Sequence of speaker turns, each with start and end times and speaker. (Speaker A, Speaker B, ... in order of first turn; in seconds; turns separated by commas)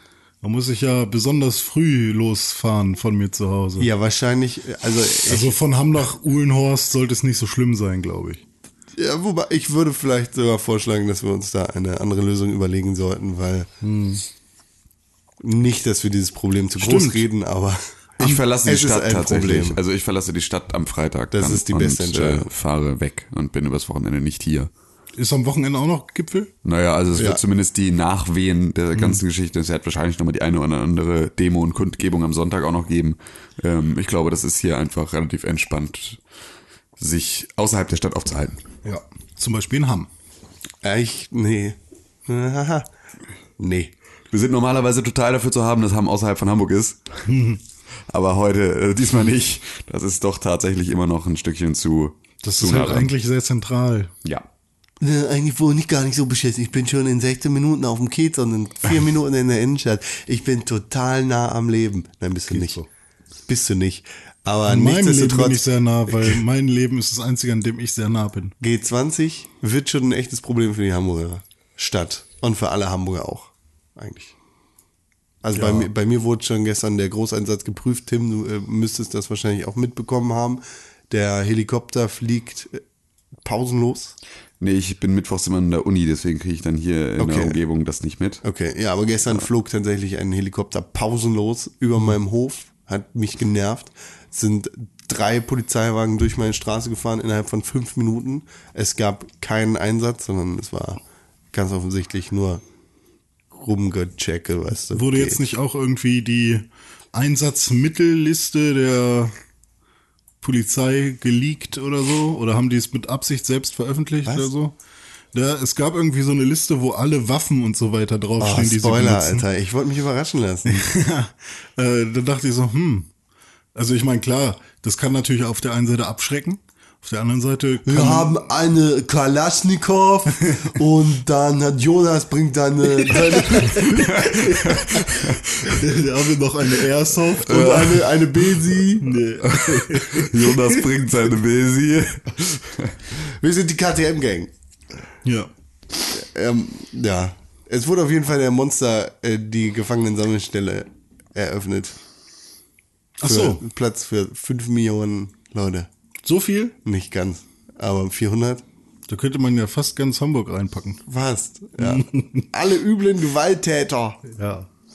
Speaker A: 0.4-3.9, Speaker B: 3.8-5.6, Speaker A: 5.3-8.4, Speaker B: 8.9-13.7, Speaker A: 13.8-14.2, Speaker B: 15.4-19.8, Speaker A: 16.8-17.2, Speaker C: 18.2-24.7, Speaker B: 21.3-22.5, Speaker A: 25.1-26.5, Speaker C: 26.6-36.2, Speaker B: 27.1-27.4, Speaker A: 28.9-29.2, Speaker C: 37.0-38.6, Speaker A: 38.8-40.1, Speaker B: 40.8-42.9, Speaker B: 43.6-43.9, Speaker C: 44.3-47.0, Speaker A: 47.2-47.6, Speaker C: 48.1-53.1, Speaker A: 52.4-54.1, Speaker B: 55.0-62.8, Speaker A: 62.5-62.9, Speaker B: 63.5-65.6, Speaker A: 64.7-68.5, Speaker B: 68.6-74.3, Speaker B: 75.4-82.8, Speaker A: 75.5-75.9, Speaker B: 83.4-84.2, Speaker C: 84.6-88.4, Speaker B: 87.2-87.6, Speaker B: 88.4-101.0, Speaker B: 101.5-102.6, Speaker B: 103.5-105.4, Speaker A: 104.9-109.3, Speaker A: 110.4-114.8, Speaker B: 114.2-114.5, Speaker A: 115.3-119.4, Speaker B: 118.4-120.9, Speaker A: 120.7-123.1, Speaker A: 123.7-128.3, Speaker B: 127.8-135.0, Speaker A: 133.4-138.0, Speaker C: 133.9-135.4, Speaker B: 137.4-139.2, Speaker C: 137.6-137.9, Speaker A: 139.0-140.8, Speaker C: 139.5-142.9, Speaker B: 143.2-144.5, Speaker A: 145.2-145.5, Speaker B: 146.1-152.0, Speaker A: 153.2-153.6, Speaker B: 153.2-155.9, Speaker A: 156.2-156.7, Speaker B: 156.8-158.6, Speaker A: 159.1-161.0, Speaker B: 161.1-164.2, Speaker A: 161.8-162.5, Speaker A: 164.2-164.7